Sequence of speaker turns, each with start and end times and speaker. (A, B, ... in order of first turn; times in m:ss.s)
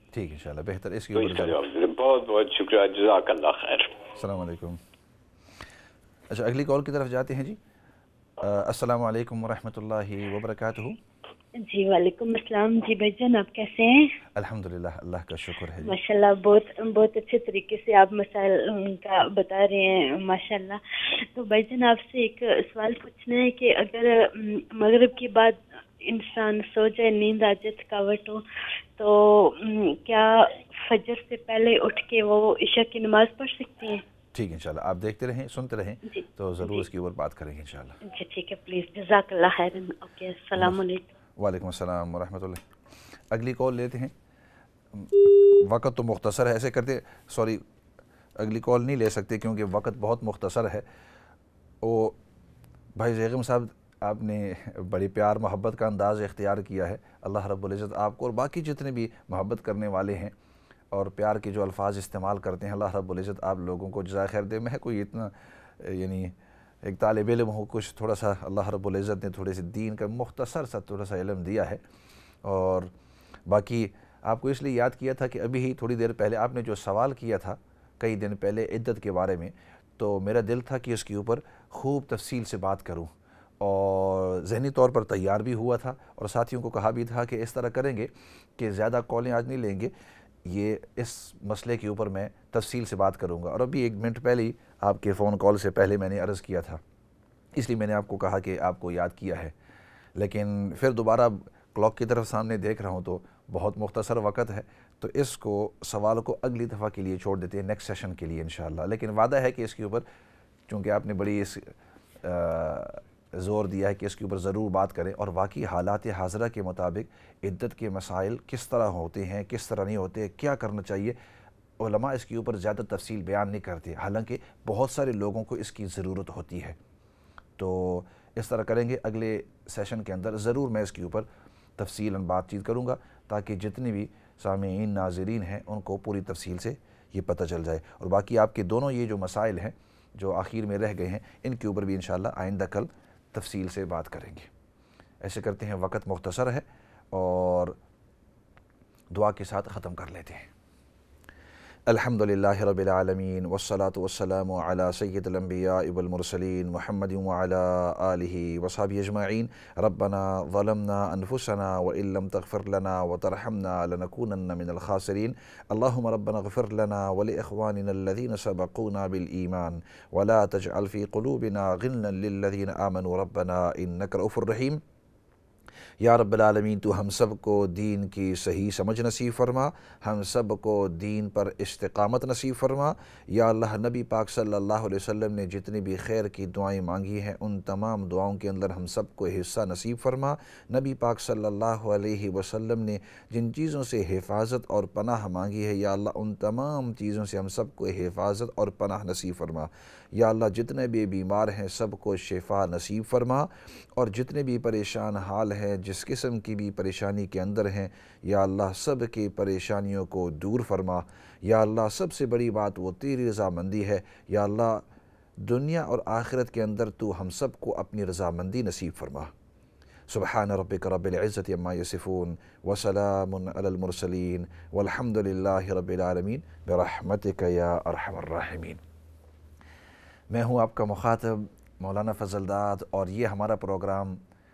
0:00.1-0:01.6 A
0:01.2-0:04.0 B
0:04.2-0:04.8 A
0:06.3-0:07.6 A
0:08.4-0:11.0 A
0:11.6-0:14.1 C
0:14.4-0:16.0 A
0:15.8-0:28.4 C
0:29.0-0:34.0 C
0:34.3-0:38.0 A
0:36.1-0:36.8 C
0:38.0-0:41.1 C
0:41.4-0:44.1 A
0:44.9-0:47.6 A
0:48.4-0:50.8 A
0:51.8-0:52.2 A
0:53.0-1:00.3 A
1:00.9-1:11.8 A
1:12.4-1:12.9 A
1:13.5-1:29.9 A
1:30.4-1:36.8 A
1:37.6-1:39.6 A
1:40.2-1:50.0 A
1:50.7-2:01.2 A
2:01.8-2:06.8 A
2:07.6-2:24.5 A
2:25.2-2:27.8 A
2:29.1-2:30.5 A
2:31.9-2:54.8 A
2:56.0-3:34.8 A
3:35.4-3:39.3 A
3:40.1-3:48.8 A
3:50.3-3:54.2 A